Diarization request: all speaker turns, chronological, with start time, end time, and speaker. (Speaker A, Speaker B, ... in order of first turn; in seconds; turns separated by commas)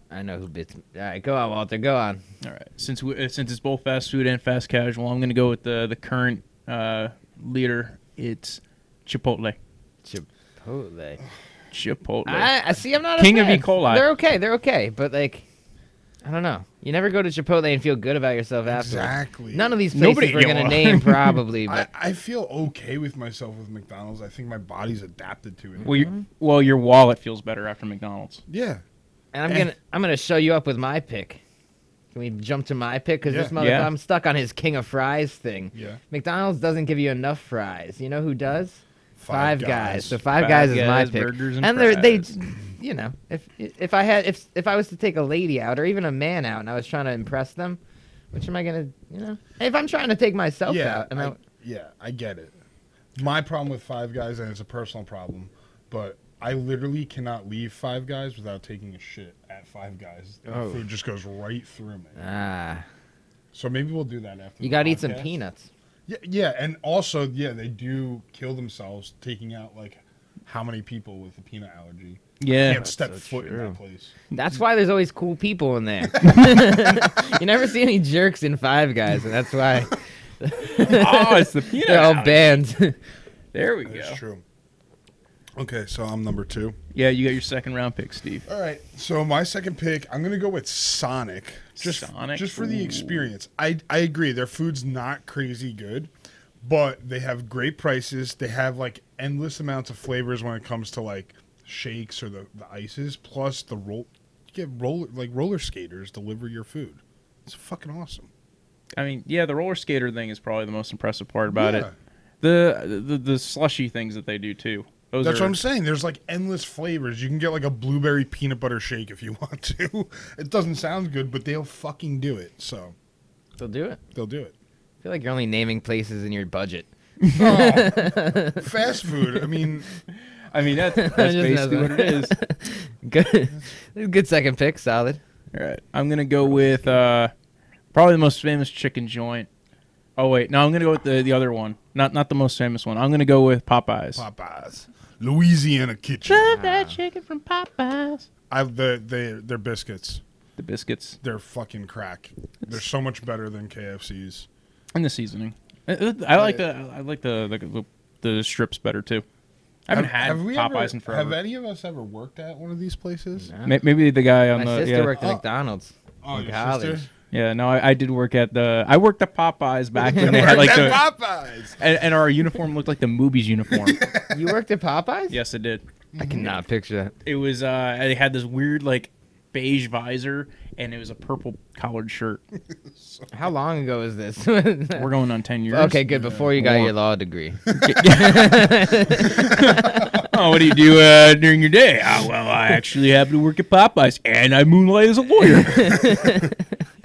Speaker A: 0.1-2.2, Speaker B: 2.4-9.6, Speaker A: 10.0-11.2, Speaker B: 11.7-12.5, Speaker A: 12.2-15.4, Speaker B: 13.2-14.1, Speaker A: 16.2-21.9, Speaker C: 18.6-19.8, Speaker B: 19.9-21.4, Speaker C: 21.7-26.0, Speaker A: 25.8-26.2, Speaker B: 25.8-28.4, Speaker C: 28.5-28.8, Speaker A: 29.3-31.4, Speaker A: 32.1-47.8, Speaker C: 33.2-33.5, Speaker B: 33.6-33.9, Speaker C: 35.7-36.0, Speaker C: 39.2-40.2, Speaker B: 40.3-42.3, Speaker A: 48.3-51.4, Speaker C: 50.6-52.6, Speaker C: 53.1-62.2, Speaker A: 60.5-60.8, Speaker A: 62.1-62.8, Speaker C: 63.5-65.3, Speaker A: 64.6-65.7, Speaker C: 66.1-74.1, Speaker B: 72.4-72.8, Speaker A: 72.6-73.8, Speaker A: 74.3-83.0, Speaker C: 76.1-77.2, Speaker B: 80.8-82.6, Speaker B: 83.5-84.2, Speaker C: 83.8-84.4, Speaker C: 85.5-86.8, Speaker B: 86.9-88.5, Speaker C: 88.5-96.1, Speaker B: 91.8-93.3, Speaker C: 96.6-108.3, Speaker B: 108.9-111.9, Speaker C: 111.5-111.9, Speaker B: 112.4-115.5, Speaker C: 115.2-122.9, Speaker A: 123.6-124.0, Speaker C: 124.1-124.5, Speaker A: 125.0-128.7, Speaker C: 127.3-129.9, Speaker B: 130.5-132.4, Speaker A: 130.9-135.2, Speaker B: 135.5-137.3, Speaker B: 137.9-139.5, Speaker B: 140.2-144.2, Speaker C: 144.1-146.6, Speaker B: 146.2-148.3, Speaker A: 146.5-146.9, Speaker C: 148.5-150.2, Speaker B: 150.6-151.2, Speaker C: 151.2-154.5, Speaker B: 154.9-159.2, Speaker B: 159.8-161.3, Speaker C: 159.9-163.5, Speaker A: 163.5-163.8, Speaker B: 163.6-165.1, Speaker A: 164.5-167.1, Speaker C: 165.2-165.4, Speaker C: 166.2-167.1, Speaker B: 167.3-171.1, Speaker C: 170.1-171.8, Speaker B: 171.8-174.1, Speaker C: 173.8-174.3, Speaker A: 174.3-175.4, Speaker B: 175.3-175.8, Speaker C: 176.1-176.5, Speaker A: 176.2-177.1, Speaker B: 177.2-182.4, Speaker C: 182.7-183.3, Speaker A: 183.3-185.1, Speaker B: 184.9-186.0, Speaker A: 185.7-190.2, Speaker C: 186.1-186.5, Speaker B: 186.6-186.9, Speaker C: 187.7-188.1, Speaker B: 187.8-196.3, Speaker C: 189.8-190.2, Speaker A: 195.7-196.6